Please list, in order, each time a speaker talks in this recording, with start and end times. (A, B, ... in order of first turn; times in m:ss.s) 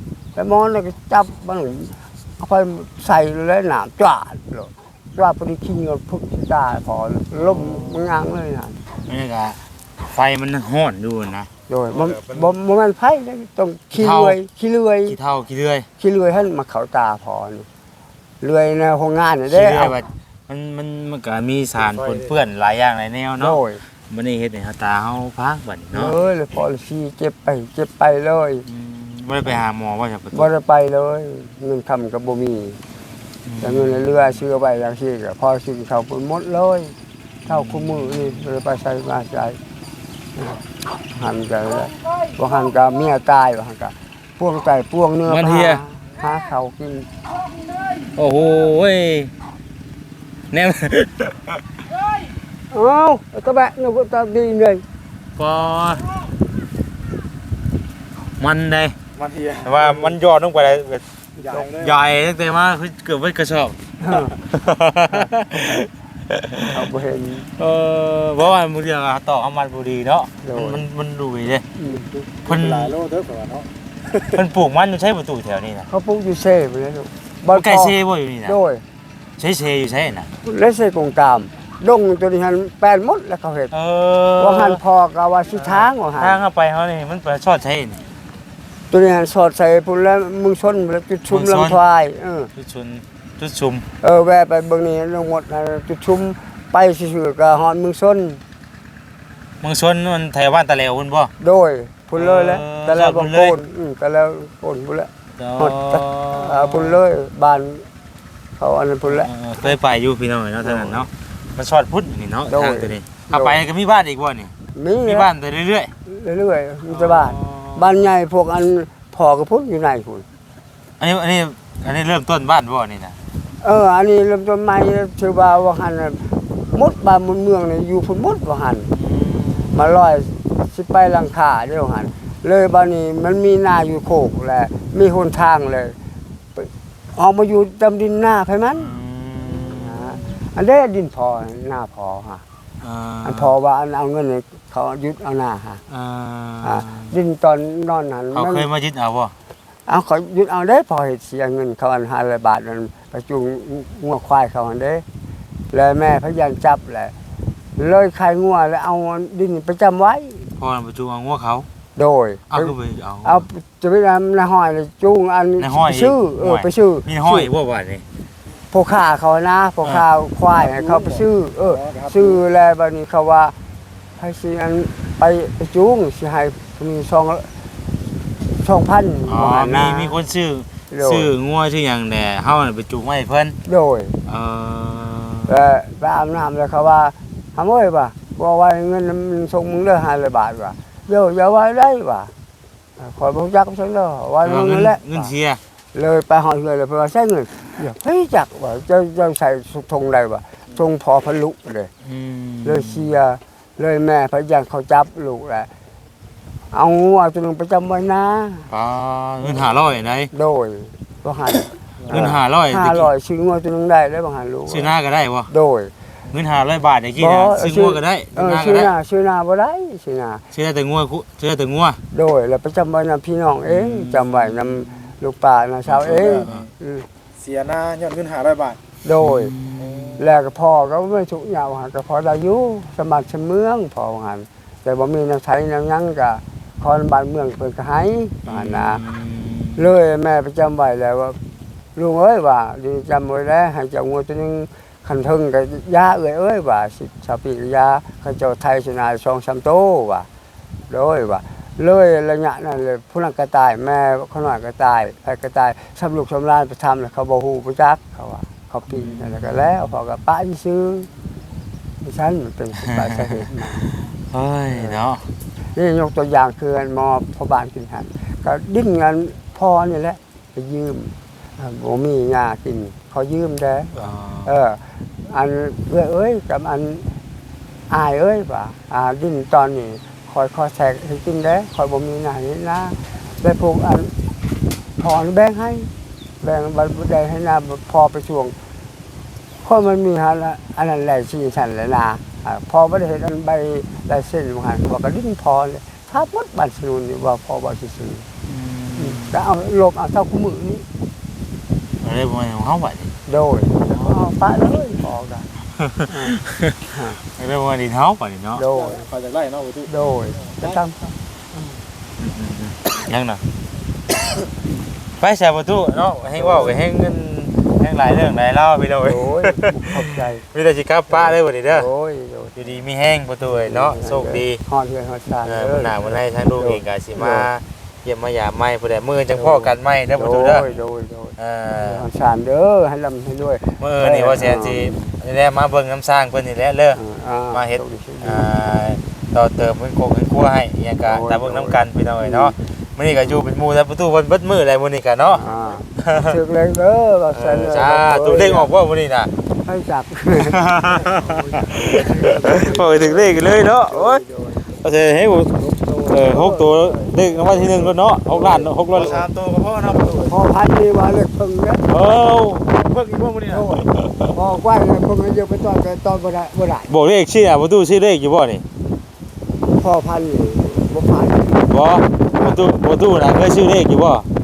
0:00.4-0:08.8 A
0:07.4-0:08.2 B
0:09.0-0:11.5 B
0:11.7-0:15.2 A
0:13.9-0:14.4 B
0:15.1-0:15.9 B
0:16.0-0:17.7 A
0:18.4-0:20.0 A
0:19.5-0:26.2 B
0:23.4-0:23.8 A
0:25.9-0:28.6 A
0:28.7-0:30.5 B
0:30.3-0:32.8 A
0:33.4-0:34.4 B
0:33.6-0:36.9 A
0:37.5-0:38.5 B
0:37.5-0:39.6 A
0:40.4-0:47.1 A
0:45.3-0:45.8 B
0:48.2-0:49.3 B
0:50.5-0:51.6 B
0:52.7-0:54.8 A
0:55.4-0:56.2 B
0:58.4-0:59.0 B
0:59.5-1:01.0 B
1:01.4-1:01.7 A
1:01.6-1:03.8 B
1:04.0-1:04.3 A
1:04.5-1:06.8 B
1:06.6-1:07.5 A
1:07.6-1:11.7 B
1:10.4-1:10.8 A
1:11.8-1:12.1 A
1:12.4-1:13.0 B
1:12.9-1:13.5 C
1:14.2-1:15.9 B
1:15.9-1:18.8 A
1:17.5-1:18.6 B
1:19.4-1:20.3 B
1:20.4-1:23.7 A
1:23.7-1:24.8 B
1:24.4-1:26.4 A
1:25.5-1:28.0 B
1:28.9-1:32.5 A
1:31.3-1:31.8 B
1:32.6-1:33.9 B
1:34.0-1:38.4 A
1:39.6-1:41.3 B
1:41.4-1:47.9 A
1:42.2-1:43.6 B
1:45.4-1:47.0 B
1:48.6-1:49.8 A
1:49.0-1:54.5 B
1:50.6-1:51.0 A
1:52.5-1:53.6 A
1:54.8-1:55.3 A
1:55.0-1:55.9 B
1:56.1-2:00.2 A
1:56.9-1:58.1 B
2:01.0-2:03.2 B
2:03.6-2:08.9 A
2:08.9-2:09.9 B
2:09.7-2:16.0 A
2:16.6-2:18.9 A
2:18.8-2:20.2 B
2:19.7-2:22.4 A
2:22.8-2:23.6 B
2:23.2-2:25.8 A
2:25.9-2:27.2 B
2:26.6-2:28.7 A
2:28.3-2:29.3 B
2:29.9-2:35.0 A
2:35.7-2:37.1 A
2:37.8-2:40.5 A
2:40.6-2:41.7 B
2:42.0-2:47.5 A
2:42.5-2:43.4 B
2:45.6-2:48.0 B
2:48.7-2:53.6 A
2:54.2-2:57.5 A
2:58.6-3:00.2 A
2:59.3-3:03.6 B
3:00.9-3:01.3 A
3:03.7-3:04.2 A
3:04.3-3:05.5 B
3:05.5-3:12.3 A
3:13.0-3:15.3 A
3:14.4-3:15.6 B
3:15.9-3:21.9 A
3:22.0-3:23.2 B
3:22.6-3:25.7 A
3:26.7-3:28.7 A
3:28.7-3:30.3 B
3:30.3-3:34.9 A
3:32.1-3:33.1 B
3:34.7-3:35.5 B
3:35.5-3:35.9 A
3:36.3-3:38.9 B
3:37.2-3:40.4 A
3:40.5-3:42.0 B
3:42.1-3:47.1 A
3:43.7-3:45.1 B
3:45.9-3:46.7 B
3:47.5-3:48.8 C
3:49.0-3:49.5 A
3:49.2-3:50.3 B
3:50.2-3:59.0 A
3:58.4-3:59.9 B
3:59.8-4:01.4 A
4:02.0-4:10.3 A
4:10.9-4:21.1 A
4:18.9-4:19.9 B
4:22.0-4:23.9 A
4:24.1-4:25.3 B
4:24.7-4:25.0 A
4:25.8-4:37.1 A
4:34.0-4:34.6 B
4:37.9-4:44.1 A
4:45.0-4:45.9 A
4:46.4-4:48.6 A
4:49.6-4:58.3 A
4:58.5-4:59.4 B
4:59.0-5:00.8 A
5:02.0-5:03.1 B
5:03.3-5:05.5 A
5:05.9-5:06.8 B
5:06.1-5:06.4 A
5:06.9-5:07.2 A
5:07.3-5:08.7 B
5:08.6-5:09.1 A
5:09.2-5:09.8 C
5:09.9-5:11.2 A
5:12.2-5:13.4 B
5:15.2-5:19.7 B
5:16.4-5:16.8 A
5:19.0-5:20.4 A
5:20.5-5:21.9 B
5:21.1-5:22.8 A
5:22.6-5:24.6 B
5:23.5-5:27.5 A
5:25.4-5:30.8 B
5:29.3-5:35.1 A
5:31.4-5:32.0 B
5:33.8-5:46.4 B
5:37.0-5:38.5 A
5:41.1-5:42.6 A
5:45.4-5:48.7 A
5:47.3-5:49.3 B
5:49.6-5:54.7 A
5:50.4-5:59.2 B
5:55.6-5:59.2 A
5:59.2-6:00.3 C
5:59.9-6:01.9 A
6:01.9-6:02.7 B
6:02.7-6:03.6 C
6:03.5-6:07.0 A
6:03.8-6:04.3 B
6:06.9-6:08.6 B
6:09.7-6:11.7 A
6:11.7-6:14.3 B